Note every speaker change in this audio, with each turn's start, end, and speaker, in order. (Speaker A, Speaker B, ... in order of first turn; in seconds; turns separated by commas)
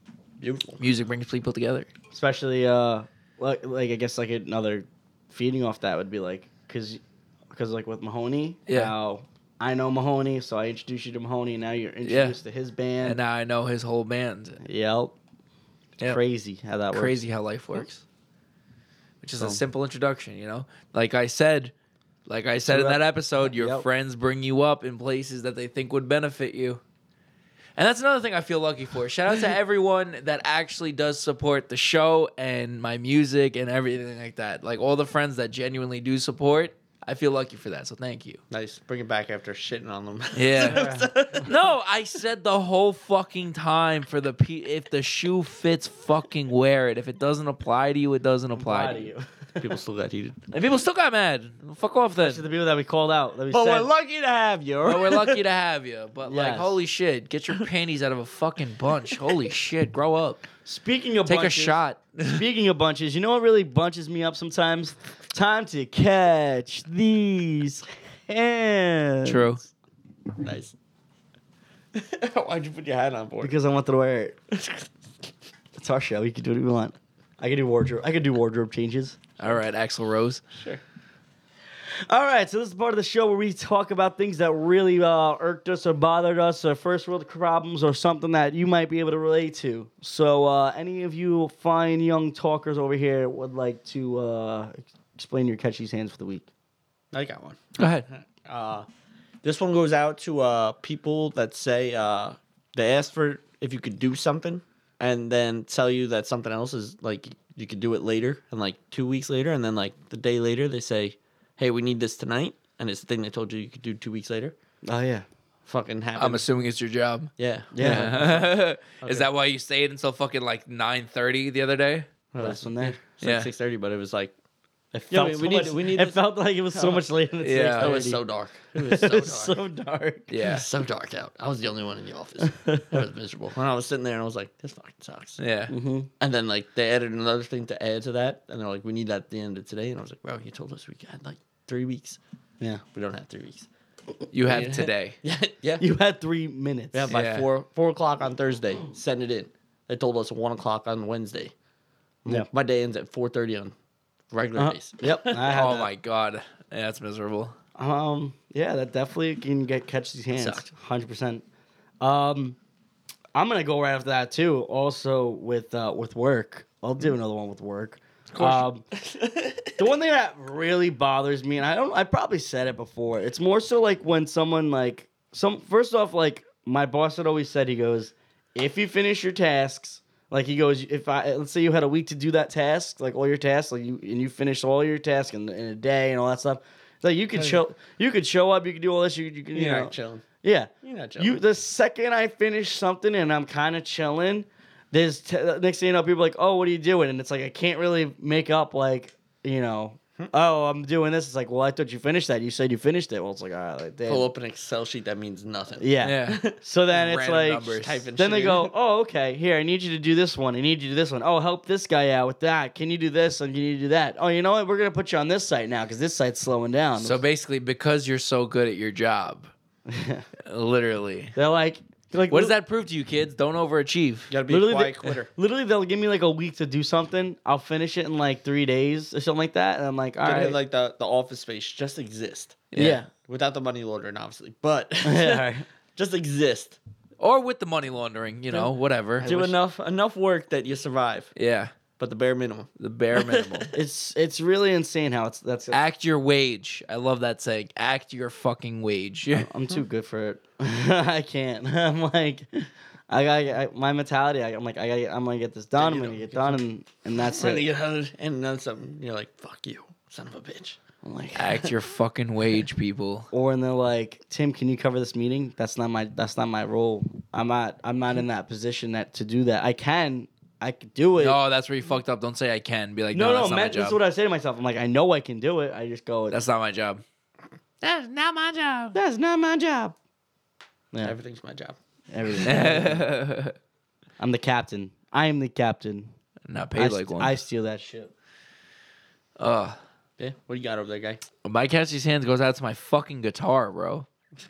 Speaker A: 0.4-0.8, Speaker B: 0.8-1.9, Speaker C: 2.1-13.2, Speaker B: 8.7-8.9, Speaker B: 12.0-12.4, Speaker B: 13.0-14.6, Speaker C: 14.6-15.1, Speaker C: 16.0-17.2, Speaker B: 16.9-17.9, Speaker B: 19.2-21.7, Speaker B: 22.3-26.8, Speaker C: 22.6-23.9, Speaker B: 27.8-38.4, Speaker A: 38.5-41.6, Speaker B: 40.4-49.1, Speaker C: 40.6-41.4, Speaker C: 48.5-49.7, Speaker A: 49.6-50.4, Speaker B: 50.5-52.4, Speaker C: 52.2-53.9, Speaker A: 53.5-55.4, Speaker B: 54.8-60.4, Speaker C: 56.3-56.8, Speaker C: 60.6-69.6, Speaker B: 61.3-62.4, Speaker B: 69.2-69.6, Speaker A: 70.4-70.7, Speaker A: 71.9-73.5, Speaker C: 73.4-74.4, Speaker A: 74.5-74.9, Speaker C: 75.8-79.2, Speaker B: 79.4-80.4, Speaker A: 80.5-80.8, Speaker C: 82.1-96.5, Speaker A: 97.1-98.9, Speaker B: 97.8-98.1, Speaker A: 99.4-114.5, Speaker C: 114.8-115.2, Speaker A: 115.7-116.5, Speaker B: 116.2-122.1, Speaker A: 117.4-119.3, Speaker C: 117.7-118.2, Speaker A: 122.3-124.3, Speaker C: 122.4-123.0, Speaker B: 123.2-123.5, Speaker C: 124.9-128.2, Speaker A: 125.1-126.2, Speaker A: 126.7-127.1, Speaker B: 127.4-128.0, Speaker A: 127.8-129.6, Speaker C: 128.8-130.3, Speaker B: 130.3-130.7, Speaker A: 130.3-135.4, Speaker C: 132.4-132.9, Speaker B: 135.4-135.7, Speaker C: 135.7-136.1, Speaker A: 136.2-142.2, Speaker A: 142.9-143.7, Speaker B: 144.3-145.2, Speaker A: 144.4-145.8, Speaker C: 145.8-147.1, Speaker A: 146.9-151.5, Speaker B: 147.1-147.5, Speaker A: 152.2-153.7, Speaker A: 154.3-155.7, Speaker C: 154.6-155.9, Speaker B: 155.5-157.6, Speaker C: 157.8-161.4, Speaker C: 162.0-162.6, Speaker C: 163.3-168.8, Speaker A: 168.3-169.7, Speaker C: 169.8-204.3, Speaker A: 189.5-190.2, Speaker A: 190.8-191.4, Speaker A: 204.1-206.6, Speaker C: 205.8-217.2, Speaker B: 206.0-208.1, Speaker A: 207.7-208.7, Speaker B: 217.0-219.5, Speaker C: 219.9-220.3, Speaker B: 220.4-221.3, Speaker C: 221.3-222.6, Speaker B: 222.3-224.3, Speaker A: 224.3-225.3, Speaker C: 224.5-230.6, Speaker A: 230.2-236.8, Speaker B: 232.7-233.0, Speaker C: 232.8-233.1, Speaker C: 235.0-235.7, Speaker B: 237.2-239.5, Speaker A: 238.5-241.3, Speaker B: 241.4-241.7, Speaker A: 242.0-243.7, Speaker B: 242.8-243.7, Speaker C: 243.7-245.8, Speaker B: 245.7-249.5, Speaker C: 249.3-257.7, Speaker A: 255.8-256.6, Speaker A: 257.2-260.8, Speaker C: 261.0-261.5, Speaker B: 261.4-263.3, Speaker C: 263.3-271.4, Speaker B: 271.2-274.0, Speaker C: 273.1-276.4, Speaker B: 276.3-277.0, Speaker B: 277.8-279.0, Speaker C: 278.9-279.9, Speaker A: 281.0-281.8, Speaker C: 282.1-283.1, Speaker B: 282.4-283.6, Speaker C: 284.2-286.1, Speaker B: 286.5-287.4, Speaker C: 286.8-288.1, Speaker B: 289.4-289.8, Speaker A: 290.2-291.2, Speaker B: 291.4-294.1